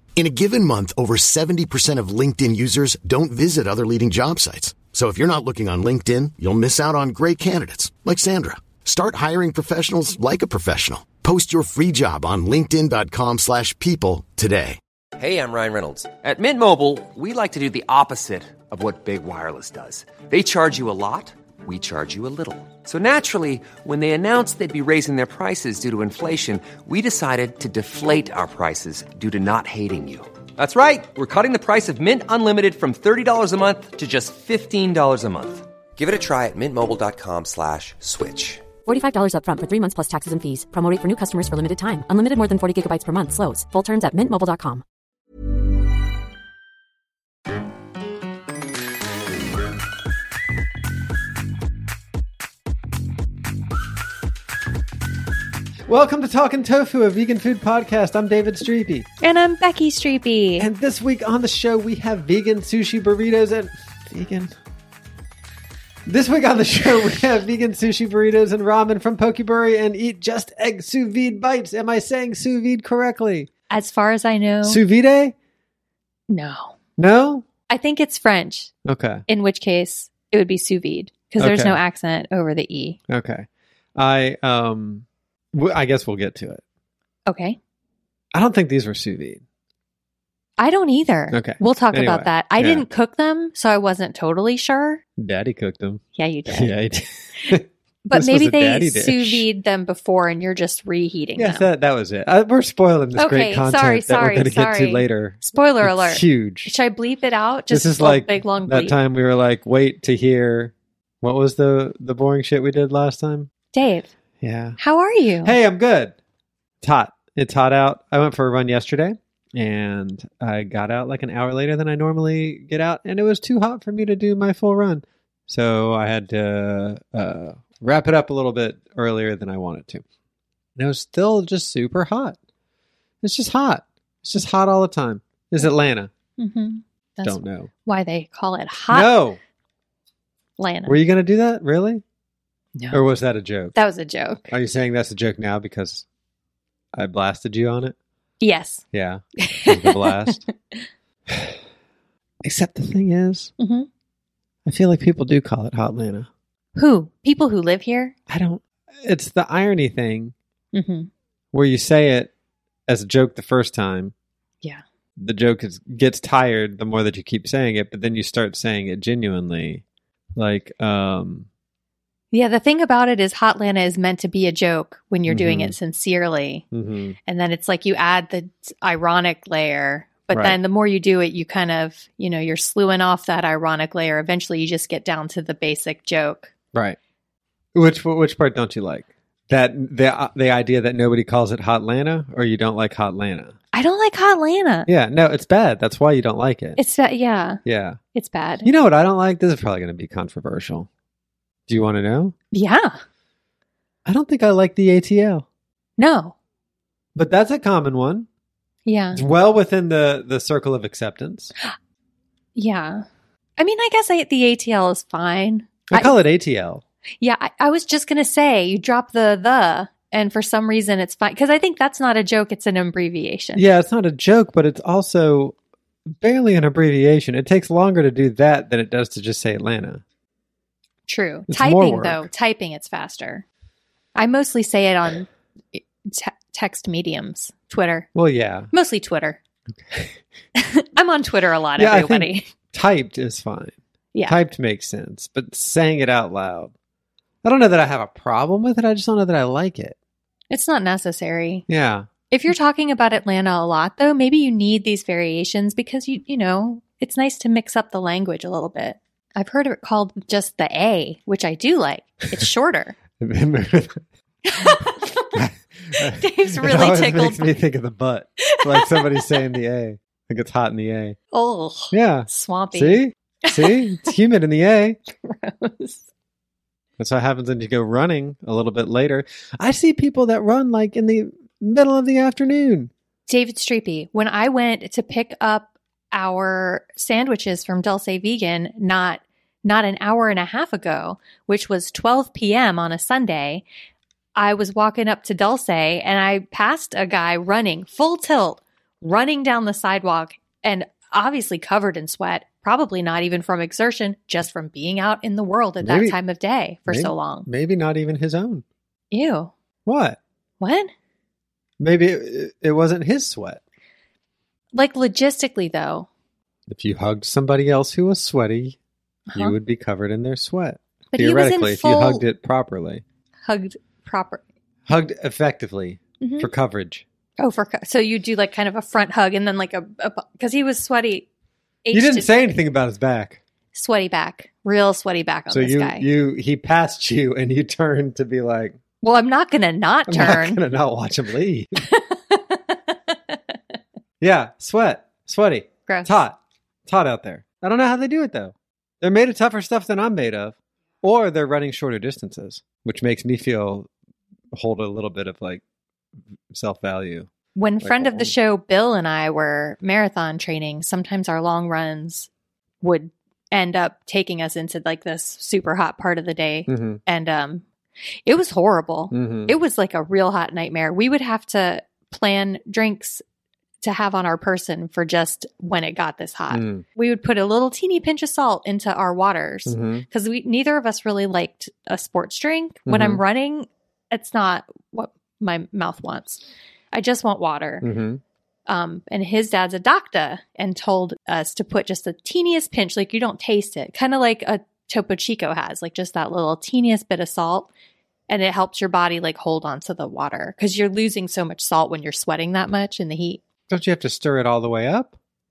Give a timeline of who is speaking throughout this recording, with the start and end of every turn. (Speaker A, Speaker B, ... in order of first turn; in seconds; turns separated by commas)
Speaker A: 0.1-14.8, Speaker B: 15.2-38.6, Speaker C: 38.8-44.8, Speaker D: 55.9-59.1, Speaker E: 59.2-60.7, Speaker D: 60.6-64.5, Speaker D: 66.0-73.5, Speaker E: 73.7-74.8, Speaker D: 74.6-75.3, Speaker E: 76.3-76.7, Speaker D: 77.0-77.5, Speaker E: 77.7-78.7, Speaker D: 78.8-79.2, Speaker E: 79.3-83.0, Speaker D: 81.4-81.8, Speaker D: 83.1-86.6, Speaker E: 87.3-87.6, Speaker D: 88.3-89.4, Speaker E: 90.6-95.0, Speaker D: 91.3-92.8, Speaker D: 95.2-99.5, Speaker E: 96.2-96.7, Speaker E: 98.0-101.7, Speaker D: 101.4-106.7, Speaker E: 103.2-109.0, Speaker D: 107.7-113.5, Speaker E: 113.7-114.1, Speaker D: 114.4-114.8, Speaker E: 114.8-115.5, Speaker D: 115.4-116.1, Speaker D: 116.8-130.0, Speaker D: 130.8-132.4, Speaker D: 133.2-136.1, Speaker E: 136.4-139.1, Speaker D: 137.2-137.7, Speaker D: 138.9-139.4, Speaker E: 140.6-140.9, Speaker D: 140.8-142.0, Speaker D: 142.9-143.7, Speaker E: 143.7-144.5, Speaker D: 144.5-146.0, Speaker D: 146.9-147.9, Speaker E: 148.4-148.8, Speaker D: 148.9-150.4, Speaker E: 149.4-150.9, Speaker D: 151.3-151.6, Speaker D: 152.4-153.5, Speaker E: 153.6-153.9, Speaker D: 154.7-156.3, Speaker E: 156.8-158.1, Speaker D: 158.3-160.3, Speaker E: 160.7-161.1, Speaker D: 161.5-162.3, Speaker D: 162.9-164.1, Speaker D: 165.2-169.8, Speaker D: 170.3-171.5, Speaker E: 172.3-176.6, Speaker D: 175.3-175.8, Speaker D: 176.7-177.2, Speaker E: 177.2-186.5, Speaker D: 180.3-180.6, Speaker D: 187.7-193.5, Speaker E: 193.7-194.9, Speaker D: 194.9-196.8, Speaker E: 196.8-197.6, Speaker D: 197.6-198.0, Speaker E: 198.1-198.7, Speaker D: 198.6-200.9, Speaker D: 201.7-202.3, Speaker E: 202.5-203.0, Speaker D: 204.1-205.4, Speaker E: 206.0-206.3, Speaker D: 207.1-208.3, Speaker E: 208.8-209.2, Speaker D: 209.1-211.5, Speaker E: 212.5-213.1, Speaker E: 213.6-216.2, Speaker D: 215.9-216.8, Speaker E: 217.2-223.6, Speaker D: 223.6-225.5, Speaker D: 226.1-230.0, Speaker E: 231.1-233.4, Speaker D: 231.5-232.3, Speaker E: 234.2-238.1, Speaker D: 238.1-238.7, Speaker E: 238.7-239.4, Speaker D: 239.7-240.2, Speaker E: 240.6-242.5, Speaker D: 241.8-246.7, Speaker D: 247.4-250.0, Speaker E: 250.5-251.7, Speaker D: 251.7-252.1, Speaker E: 252.3-263.0, Speaker D: 263.2-264.0, Speaker E: 264.4-267.6, Speaker D: 265.3-271.2, Speaker E: 268.4-269.5, Speaker E: 271.3-274.1, Speaker D: 271.9-275.0, Speaker E: 275.2-276.1, Speaker D: 277.0-282.9, Speaker E: 283.3-293.6, Speaker E: 294.4-307.5, Speaker D: 305.8-306.2, Speaker D: 306.9-308.6, Speaker E: 309.1-309.5, Speaker D: 309.9-310.2, Speaker E: 310.6-310.9, Speaker D: 311.8-313.6, Speaker E: 314.7-316.1, Speaker D: 316.7-318.8, Speaker E: 319.3-319.6, Speaker D: 319.3-323.0, Speaker E: 321.1-322.2, Speaker E: 323.5-324.4, Speaker D: 324.9-327.0, Speaker E: 326.2-326.5, Speaker E: 327.4-331.3, Speaker E: 331.8-332.3, Speaker D: 331.9-333.4, Speaker E: 333.7-336.1, Speaker D: 335.5-338.8, Speaker E: 339.0-340.6, Speaker D: 340.1-341.8, Speaker E: 341.8-343.6, Speaker D: 344.2-353.9, Speaker D: 354.5-355.6, Speaker D: 356.5-357.3, Speaker E: 357.6-362.3, Speaker D: 357.8-358.3, Speaker E: 362.8-367.6, Speaker D: 366.7-367.0, Speaker E: 368.2-373.2, Speaker D: 369.1-369.5, Speaker E: 373.8-387.9, Speaker D: 376.5-376.8, Speaker D: 379.7-380.1, Speaker D: 382.9-383.2, Speaker D: 387.8-388.2, Speaker E: 388.7-397.7, Speaker E: 398.3-403.4, Speaker D: 403.7-405.1